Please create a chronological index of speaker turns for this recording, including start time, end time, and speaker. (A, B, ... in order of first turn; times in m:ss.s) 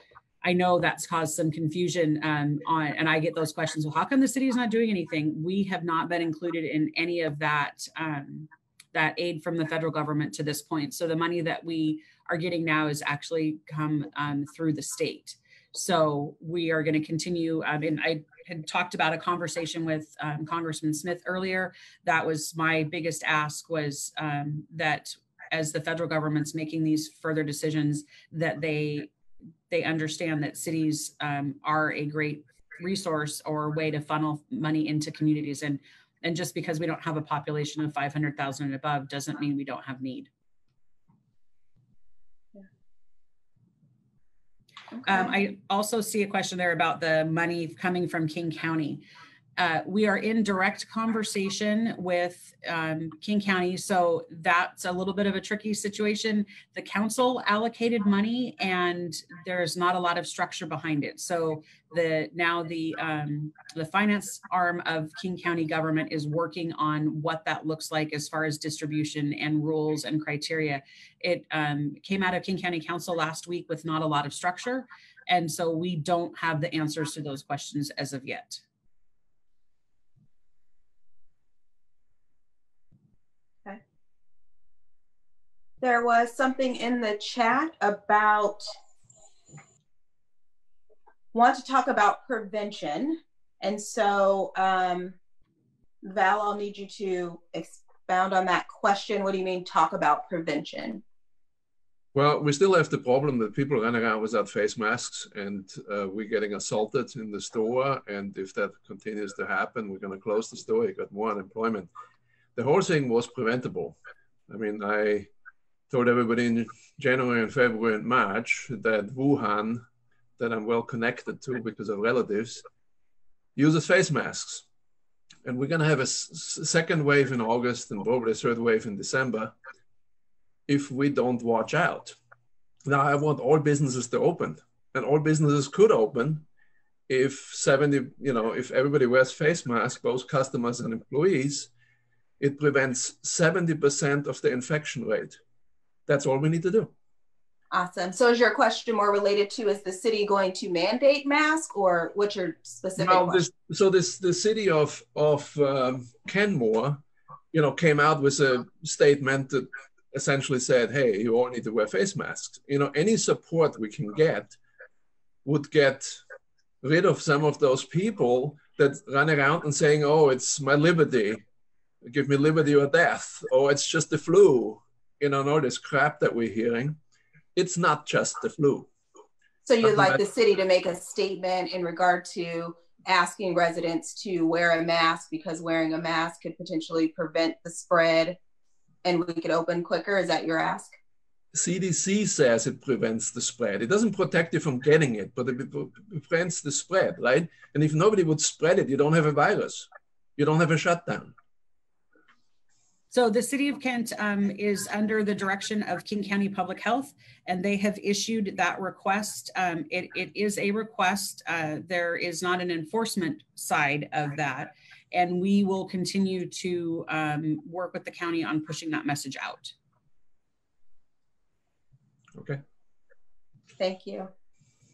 0:00.4-0:29.1 A
0:29.7-0:40.3 A
0:45.0-0:45.3 B
0:45.0-0:49.0 A
0:49.6-1:18.6 A
1:25.8-1:28.7 B
1:31.3-1:35.2 B
1:36.0-1:41.0 B
1:42.1-1:51.9 C
1:52.6-1:55.3 C
1:55.9-1:59.9 C
2:00.4-2:02.6 C
2:03.6-2:04.7 C
2:05.4-2:09.6 C
2:10.7-2:12.2 C
2:12.8-2:16.4 C
2:17.1-2:21.7 C
2:22.4-2:25.4 C
2:26.1-2:26.9 C
2:27.7-2:33.4 B
2:33.0-2:44.6 C
2:45.4-2:46.2 C
2:46.8-2:51.4 C
2:52.0-2:57.0 C
2:57.6-2:58.9 C
2:59.6-3:08.4 B
2:59.8-3:00.2 C
3:09.0-3:11.0 B
3:11.5-3:21.4 C
3:23.1-3:39.7 A
3:42.3-3:42.6 C
3:43.8-3:44.3 B